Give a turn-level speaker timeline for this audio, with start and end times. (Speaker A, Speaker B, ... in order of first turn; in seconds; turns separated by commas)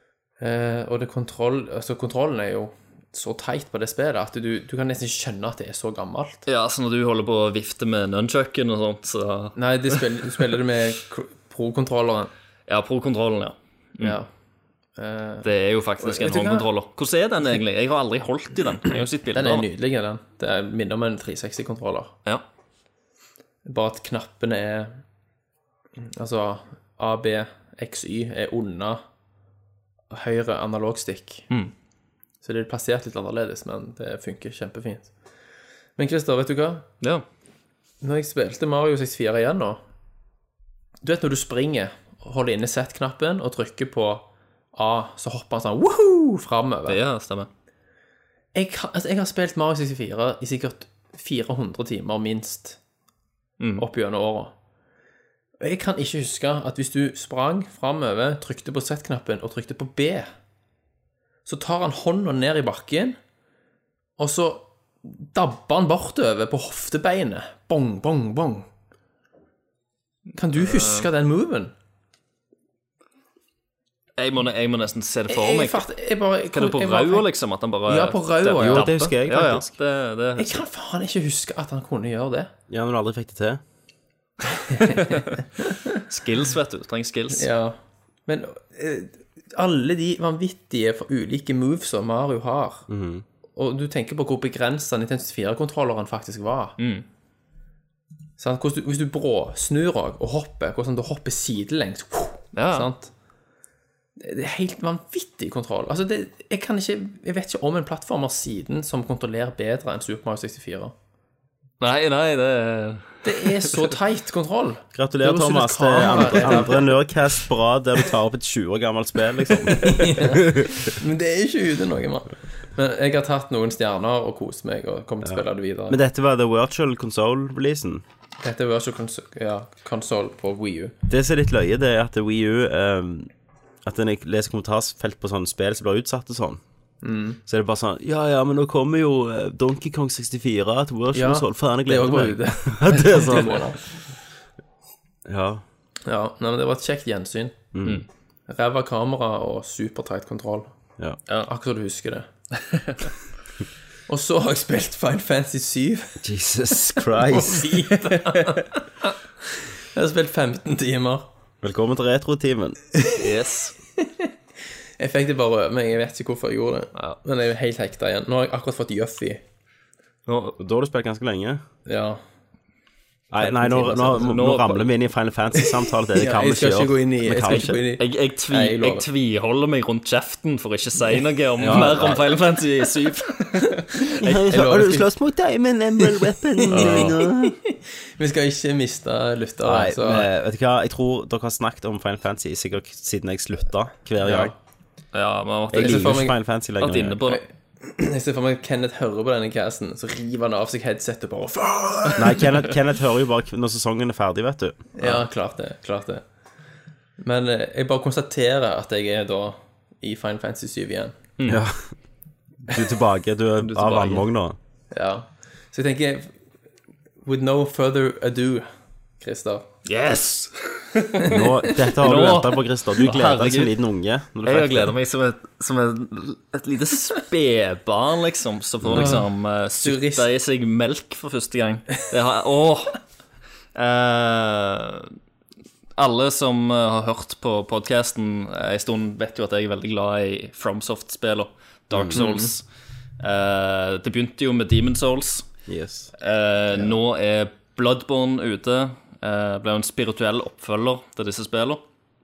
Speaker A: 0.4-6.5, Speaker B: 6.5-10.0, Speaker A: 9.6-12.3, Speaker B: 12.7-14.2, Speaker A: 14.0-14.3, Speaker A: 14.9-16.7, Speaker B: 15.4-19.6, Speaker A: 19.3-22.1, Speaker A: 23.6-25.0, Speaker A: 26.0-29.0, Speaker A: 30.1-31.5, Speaker A: 32.4-35.1, Speaker A: 36.0-36.9, Speaker A: 38.0-39.8, Speaker A: 41.0-47.0, Speaker B: 46.9-47.5, Speaker A: 48.5-52.8, Speaker B: 53.6-53.8, Speaker A: 53.8-54.5, Speaker A: 55.6-60.3, Speaker A: 61.5-63.2, Speaker A: 64.2-68.7, Speaker A: 70.3-71.7, Speaker B: 70.5-71.1, Speaker B: 74.2-75.8, Speaker A: 75.3-77.3, Speaker B: 76.5-80.6, Speaker A: 77.8-79.1, Speaker C: 78.6-79.7, Speaker A: 80.4-82.5, Speaker C: 82.7-83.6, Speaker A: 84.7-85.9, Speaker B: 84.8-85.2, Speaker B: 86.1-87.5, Speaker A: 87.3-92.8, Speaker C: 92.9-93.2, Speaker A: 93.5-96.8, Speaker B: 96.8-97.0, Speaker A: 98.4-103.1, Speaker B: 102.5-102.9, Speaker A: 104.2-110.9, Speaker B: 111.8-113.9, Speaker A: 113.2-117.0, Speaker C: 114.9-120.9, Speaker A: 119.7-126.0, Speaker C: 125.2-128.0, Speaker A: 128.4-130.9, Speaker C: 131.1-133.3, Speaker C: 133.8-136.6, Speaker A: 137.0-137.4, Speaker C: 137.5-143.8, Speaker A: 141.1-143.8, Speaker C: 145.2-145.6, Speaker A: 146.1-147.6, Speaker C: 147.7-148.0, Speaker A: 148.5-150.7, Speaker A: 151.3-152.3, Speaker A: 154.1-156.2, Speaker C: 156.2-157.7, Speaker A: 156.9-159.1, Speaker A: 159.9-161.3, Speaker C: 161.6-162.8, Speaker B: 163.1-163.7, Speaker A: 164.0-164.3, Speaker A: 165.0-169.4, Speaker B: 170.3-170.6, Speaker C: 170.6-171.6, Speaker A: 171.8-172.2, Speaker C: 173.3-177.8, Speaker B: 173.4-174.9, Speaker A: 175.6-179.0, Speaker B: 177.4-184.4, Speaker C: 181.6-182.2, Speaker C: 184.2-187.6, Speaker A: 184.2-185.1, Speaker A: 186.1-190.3, Speaker B: 186.7-187.1, Speaker C: 189.6-194.5, Speaker A: 194.2-194.5, Speaker B: 195.1-196.3, Speaker C: 195.7-197.2, Speaker A: 195.7-196.3, Speaker B: 196.8-197.4, Speaker A: 197.2-202.6, Speaker C: 202.2-205.0, Speaker A: 205.0-206.2, Speaker A: 207.2-211.2, Speaker C: 211.4-211.9, Speaker C: 212.7-214.6, Speaker B: 213.6-214.2, Speaker A: 214.9-216.3, Speaker A: 217.2-219.7, Speaker B: 219.8-221.3, Speaker A: 221.2-221.7, Speaker C: 221.3-224.9, Speaker B: 222.0-223.7, Speaker B: 224.4-233.0, Speaker C: 228.8-229.2, Speaker A: 228.9-229.3, Speaker A: 229.8-230.3, Speaker B: 233.7-235.1, Speaker B: 235.9-242.6, Speaker C: 241.9-242.2, Speaker A: 242.1-242.5, Speaker B: 243.2-245.4, Speaker C: 245.7-246.1, Speaker B: 246.2-251.8